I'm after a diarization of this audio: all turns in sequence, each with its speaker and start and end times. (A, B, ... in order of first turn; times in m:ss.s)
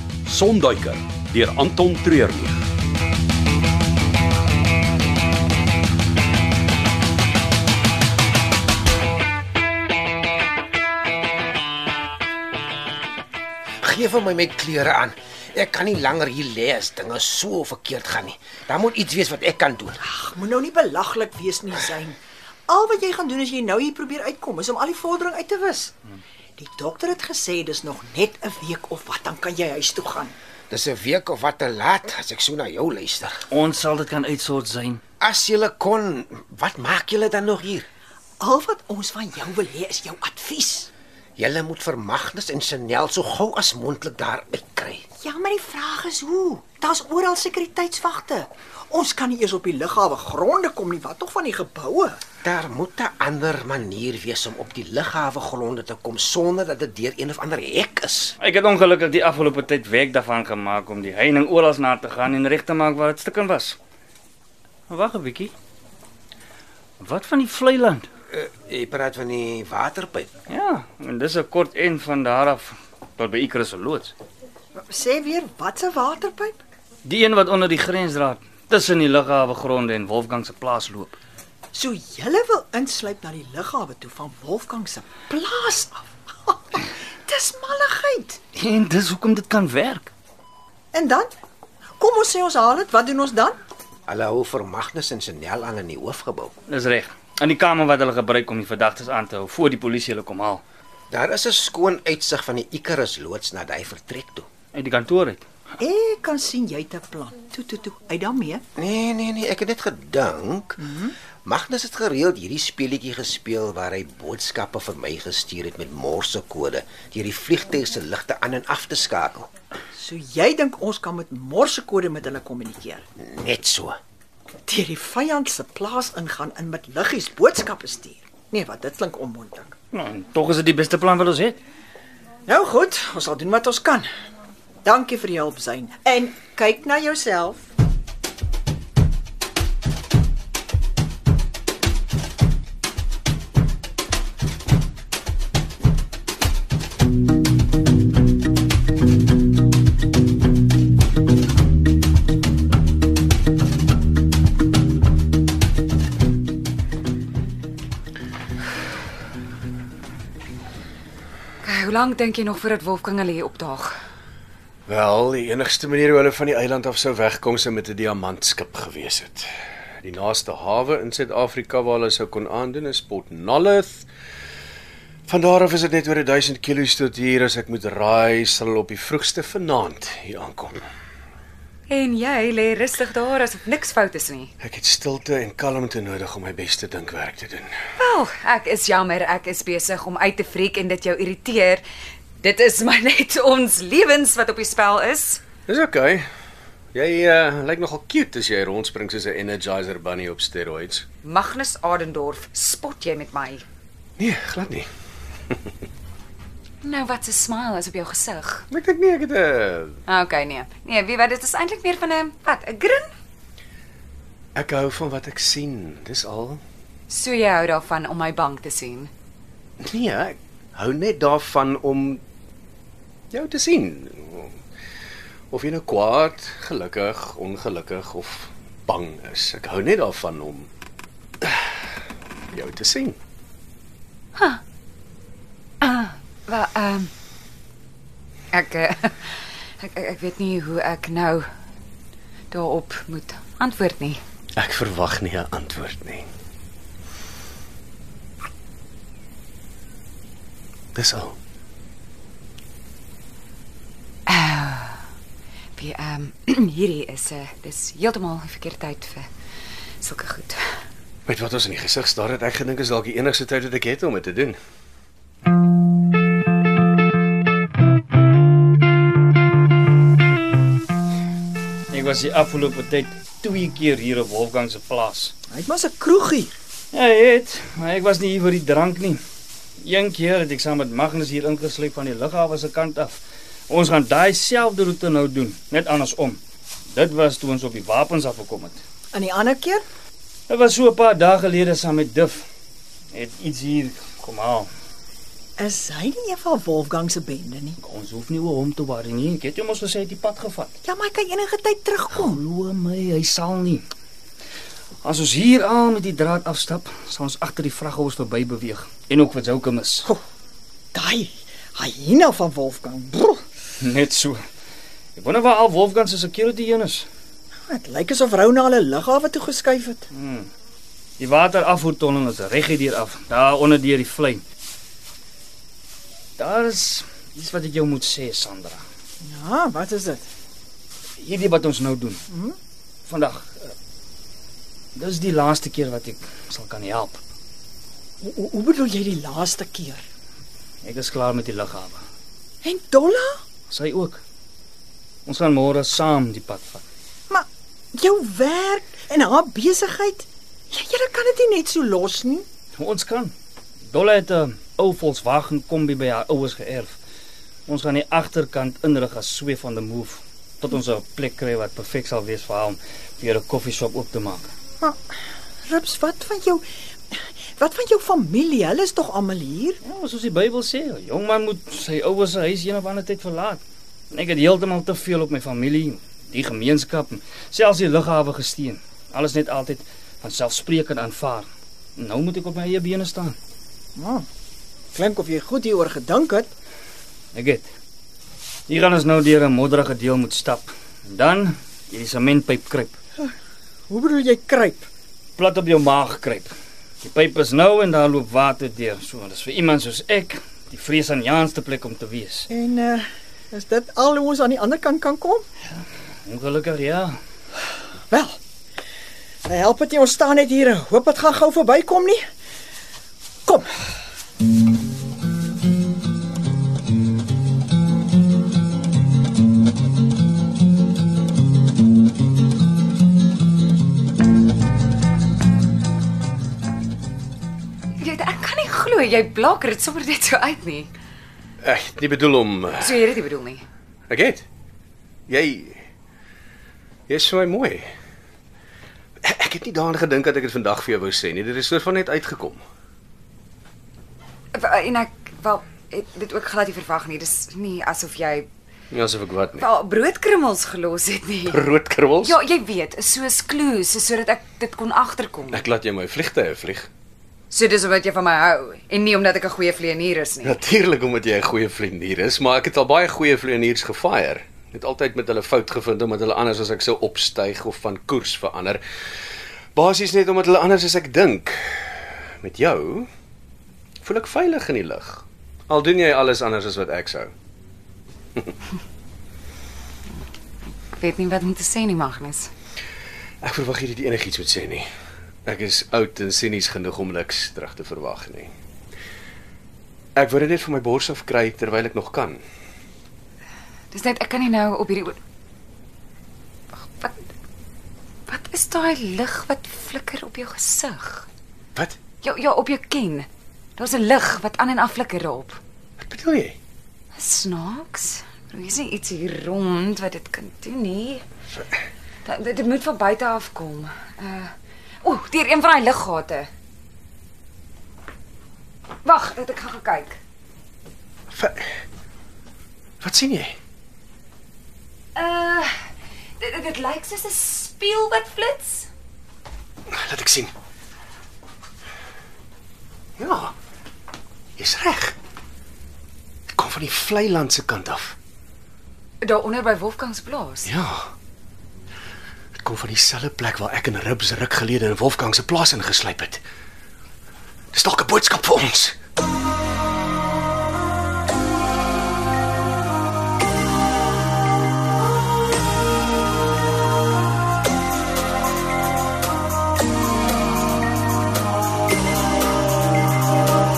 0:00.2-0:02.6 A
0:13.8-0:20.0 B
0:20.0-0:22.2 C
0:22.7-0:25.9 C
0:26.6-0:30.3 C
0:30.7-0:33.4 B
0:33.5-0:35.0 D
0:35.2-0:37.8 B
0:38.4-0:40.9 C
0:41.4-0:45.0 B
0:45.2-0:52.2 C
0:52.4-0:58.3 B
0:58.4-1:03.8 D
1:04.9-1:05.5 D
1:07.0-1:08.1 D
1:08.3-1:10.3 B
1:10.5-1:14.1 D
1:14.8-1:16.6 C
1:17.0-1:21.2 D
1:21.7-1:28.4 C
1:28.5-1:30.1 D
1:30.9-1:31.3 C
1:32.0-1:33.6 C
1:34.1-1:36.5 B
1:36.7-1:40.6 D
1:41.1-1:44.4 B
1:44.7-1:45.4 D
1:45.8-1:48.6 C
1:48.8-1:50.9 B
1:51.4-1:59.5 B
2:00.0-2:03.0 C
2:03.2-2:04.0 B
2:04.7-2:09.8 C
2:09.9-2:11.6 D
2:12.5-2:14.0 C
2:14.8-2:17.7 C
2:41.6-2:43.9 E
2:44.9-2:54.1 F
2:55.3-3:00.8 F
3:01.9-3:04.5 E
3:04.6-3:07.7 F
3:08.0-3:11.8 E
3:12.4-3:15.4 E
3:15.7-3:16.2 F
3:16.9-3:21.0 F
3:21.2-3:23.6 E
3:24.2-3:24.9 F
3:26.8-3:28.7 E
3:28.7-3:30.0 F
3:30.1-3:33.1 E
3:34.6-3:36.6 F
3:37.1-3:39.1 E
3:39.8-3:42.2 F
3:43.3-3:44.6 F
3:45.5-3:50.7 F
3:51.4-3:51.7 F
3:52.5-3:53.2 F
3:54.4-3:54.6 E
3:55.8-3:57.1 E
3:58.5-4:01.4 E
4:02.5-4:04.2 E
4:04.6-4:06.3 F
4:10.9-4:11.4 F
4:14.3-4:15.0 E
4:15.8-4:19.3 E
4:20.0-4:20.7 E
4:21.2-4:24.6 F
4:31.9-4:35.3 D
4:35.5-4:36.5 C
4:36.9-4:39.2 D
4:39.8-4:46.4 D
4:46.9-4:48.8 D
4:49.1-4:49.8 C
4:50.5-4:52.5 D
4:53.1-4:54.7 D
4:55.6-4:57.8 C
4:57.8-5:00.7 D
5:00.8-5:02.4 C
5:02.1-5:03.8 D
5:05.0-5:10.1 D
5:10.9-5:13.4 C
5:13.8-5:14.4 D
5:15.1-5:17.1 D
5:17.7-5:20.0 C
5:20.1-5:20.5 D
5:21.2-5:24.4 D
5:26.4-5:28.8 D
5:29.2-5:30.2 C
5:31.2-5:32.2 D
5:32.3-5:32.6 C
5:33.0-5:33.7 D
5:34.9-5:37.2 D
5:38.2-5:40.0 C
5:40.8-5:42.0 D
5:42.6-5:43.4 C
5:43.7-5:44.2 D
5:45.2-5:46.8 D
5:47.3-5:52.4 C
5:52.8-5:53.3 D
5:53.9-5:57.0 D
5:57.7-6:04.5 D
6:04.8-6:05.1 C
6:05.7-6:09.8 C
6:09.8-6:23.4 D
6:24.0-6:24.2 C
6:24.9-6:26.5 C
6:27.3-6:27.7 D
6:28.7-6:33.0 D
6:33.9-6:34.9 C
6:35.4-6:36.5 D
6:37.0-6:42.5 D
6:42.5-6:45.4 C
6:46.2-6:47.2 D
6:48.1-6:48.4 C
6:49.4-6:52.2 C
7:08.0-7:10.9 E
7:11.6-7:13.0 F
7:12.8-7:13.6 E
7:14.1-7:14.4 F
7:15.3-7:15.8 F
7:17.1-7:17.9 F
7:19.2-7:22.6 F
7:24.5-7:28.5 E
7:28.9-7:29.7 F
7:29.6-7:31.6 E
7:31.5-7:32.4 F
7:32.2-7:35.7 E
7:35.5-7:36.9 F
7:37.5-7:40.6 E
7:40.4-7:48.8 F
7:49.7-7:53.1 F
7:54.0-7:57.3 F
8:00.9-8:02.5 E
8:03.4-8:04.9 F
8:05.4-8:08.5 F
8:10.2-8:12.4 F
8:13.9-8:15.2 E
8:16.8-8:17.2 E
8:18.3-8:21.3 E
8:22.2-8:25.6 E
8:26.0-8:26.6 F
8:27.1-8:31.2 E
8:32.2-8:36.5 E
8:39.0-8:40.2 E
8:41.3-8:41.6 F
8:43.0-8:43.6 F
8:45.1-8:45.7 E
8:46.4-8:48.9 E
8:49.9-8:50.5 F
8:53.2-8:53.5 F
8:54.6-8:55.2 F
8:56.5-8:58.2 F
8:59.2-9:00.7 E
9:00.6-9:01.1 F
9:02.6-9:06.4 F
9:07.7-9:09.0 F